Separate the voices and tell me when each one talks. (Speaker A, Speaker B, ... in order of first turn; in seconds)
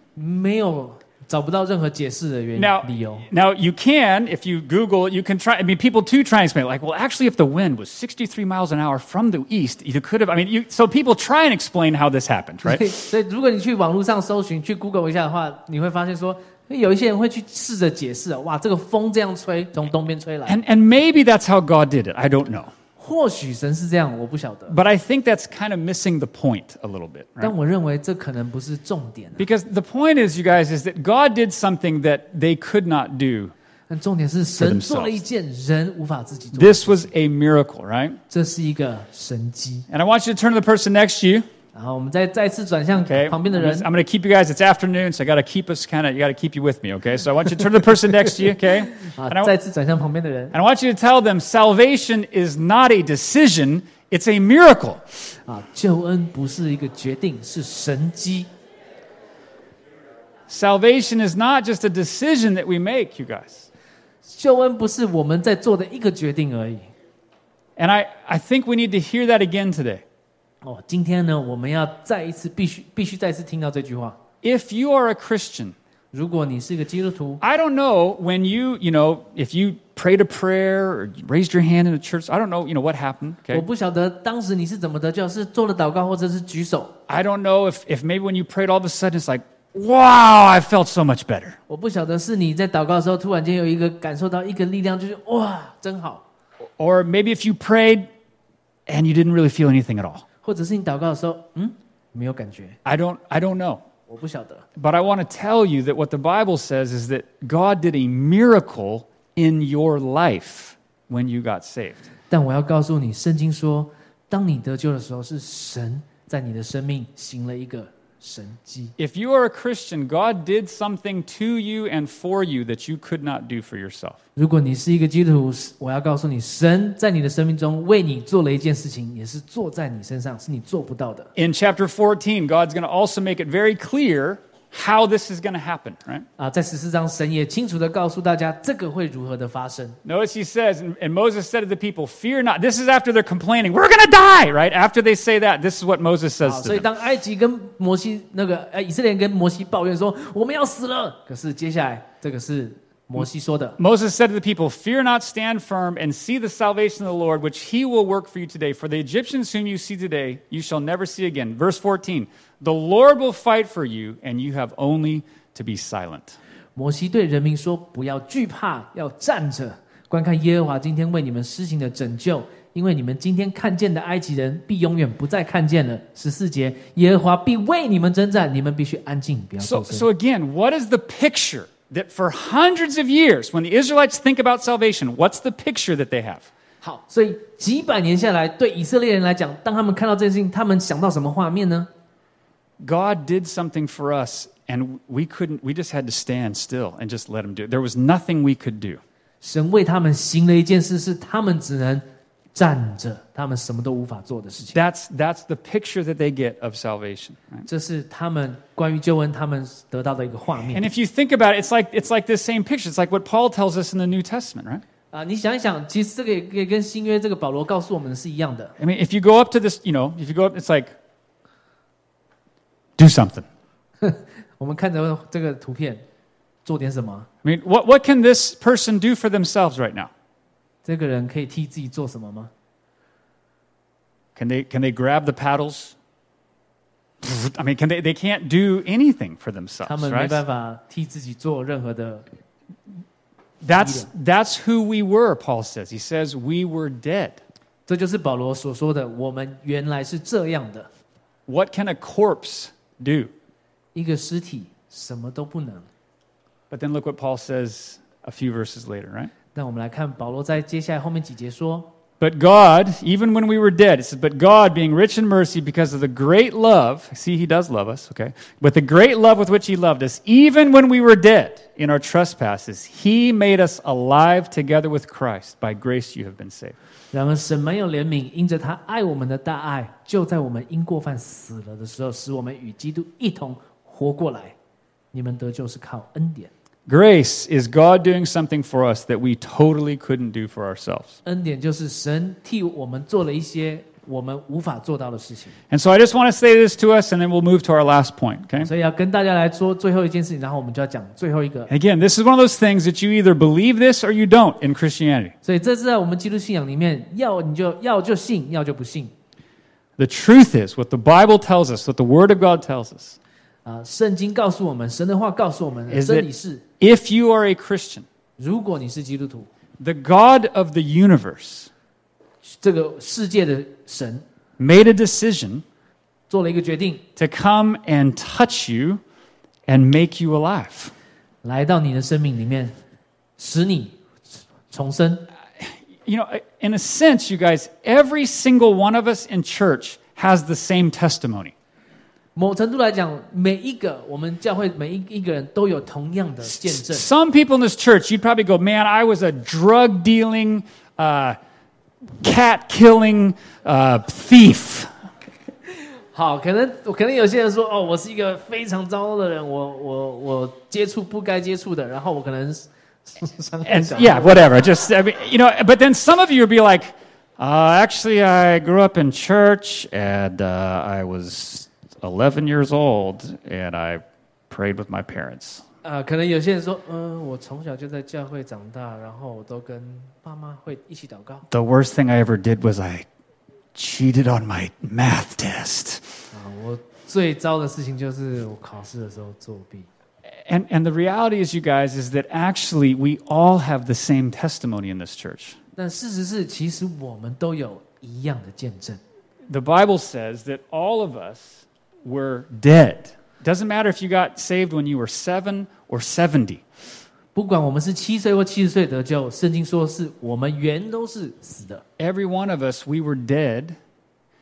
Speaker A: 0.2-3.3, 12.6-20.6, 23.0-24.8, 27.4-29.4, 33.9-37.1, 38.3-39.9, 41.7-43.9, 48.9-50.5, 55.5-58.5, 64.2-66.9, 70.6-74.2, 76.1-77.4, 83.5-87.0, 91.7-96.2, 100.4-102.8, 104.1-104.7, 112.3-118.9, 124.4-131.3, 136.4-140.0, 146.4-153.8, 166.8-180.1, 186.8-191.9, 199.4-202.0, 202.6-204.8, 207.7-210.9, 215.1-218.7, 224.0-226.1, 226.7-227.3, 230.8-232.5, 239.9-242.3, 243.8-244.1, 247.9-250.9, 253.9-255.9, 259.6-261.9, 277.1-284.6, 285.1-286.5, 291.2-295.6, 298.6-301.7, 305.4-309.1, 313.6-316.6, 318.4-319.5, 322.4-324.2, 326.3-327.0, 331.4-332.7, 333.4-334.0, 334.7-335.3, 342.4-347.1, 356.1-364.5, 375.8-381.4, 386.3-389.9, 395.8-399.0, 407.4-411.8
Speaker B: 2.6-12.9, 20.5-22.7, 24.7-27.5, 29.4-33.5, 34.6-35.2, 36.5-38.2, 39.9-41.5, 43.0-49.5, 50.5-55.0, 60.5-63.7, 67.8-70.0, 74.4-75.8, 77.4-83.6, 87.1-91.6, 96.8-98.1, 98.9-100.2, 102.8-103.8, 104.8-112.1, 119.0-124.2, 131.4-136.2, 140.1-146.9, 153.8-166.4, 179.6-186.5, 192.8-199.0, 204.7-207.7, 210.7-214.8, 218.8-220.9, 223.0-223.5, 227.4-230.1, 234.4-236.0, 237.2-240.4, 243.6-247.4, 251.5-253.3, 256.7-259.3, 262.2-276.8, 286.9-291.2, 295.7-298.7, 301.7-305.3, 310.0-313.2, 315.9-316.3, 316.8-318.1, 319.8-321.7, 324.6-325.6, 327.2-329.0, 329.7-330.9, 335.6-341.5, 346.4-351.4, 352.2-354.9, 363.6-375.6, 381.5-383.1, 383.8-386.2, 390.4-395.6, 399.5-406.6, 412.0-413.8